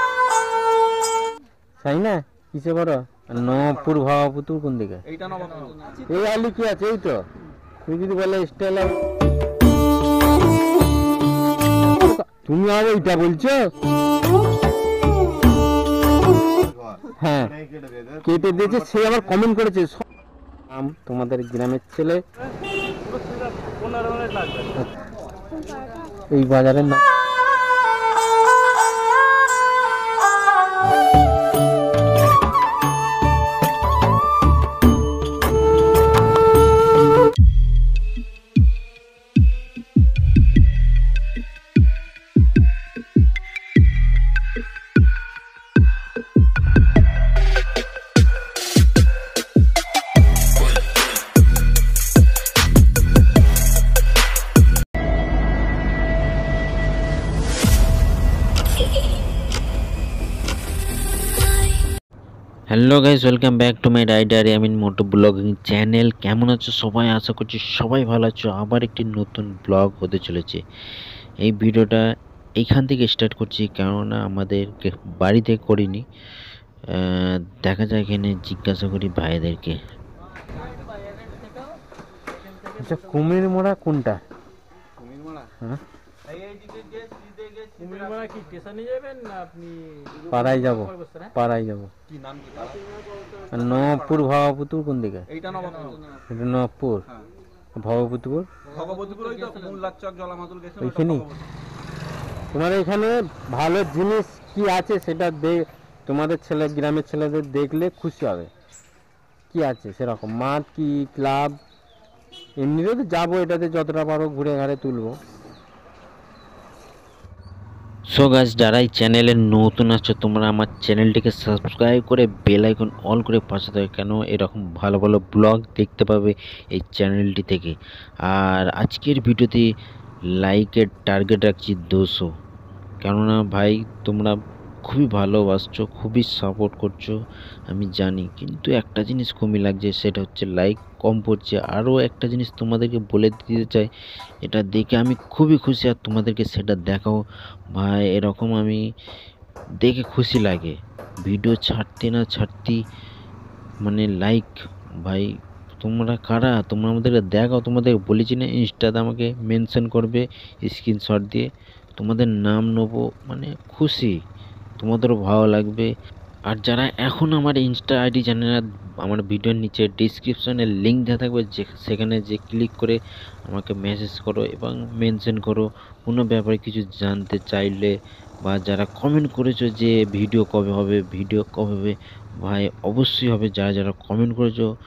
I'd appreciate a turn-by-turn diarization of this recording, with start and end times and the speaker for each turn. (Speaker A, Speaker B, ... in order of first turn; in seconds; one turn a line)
Speaker A: 1.8-5.0
Speaker B: 5.2-5.7
Speaker A: 6.1-7.2
Speaker A: 7.8-9.0
Speaker A: 12.0-13.7
Speaker A: 17.1-17.6
Speaker A: 18.2-20.1
Speaker A: 20.7-22.2
Speaker C: 23.0-24.7
Speaker A: 26.3-27.0
Speaker D: 62.7-70.6
Speaker D: 71.4-72.0
Speaker D: 72.6-76.1
Speaker D: 76.9-79.8
Speaker A: 82.7-84.2
Speaker B: 87.9-88.3
Speaker C: 88.3-89.8
Speaker A: 90.3-91.9
Speaker B: 92.2-92.8
Speaker A: 93.5-95.3
Speaker B: 95.4-96.0
Speaker A: 96.3-97.0
Speaker A: 97.8-98.5
Speaker B: 98.7-101.0
Speaker A: 100.8-101.3
Speaker A: 102.5-108.5
Speaker A: 109.5-111.6
Speaker A: 112.6-115.2
Speaker D: 118.1-129.7
Speaker D: 130.4-132.3
Speaker D: 133.0-137.2
Speaker D: 137.7-143.9
Speaker D: 144.4-148.8
Speaker D: 149.8-152.8
Speaker D: 153.8-155.3
Speaker D: 155.8-161.5
Speaker D: 162.0-164.2
Speaker D: 164.8-165.9
Speaker D: 166.5-177.9
Speaker D: 178.4-184.7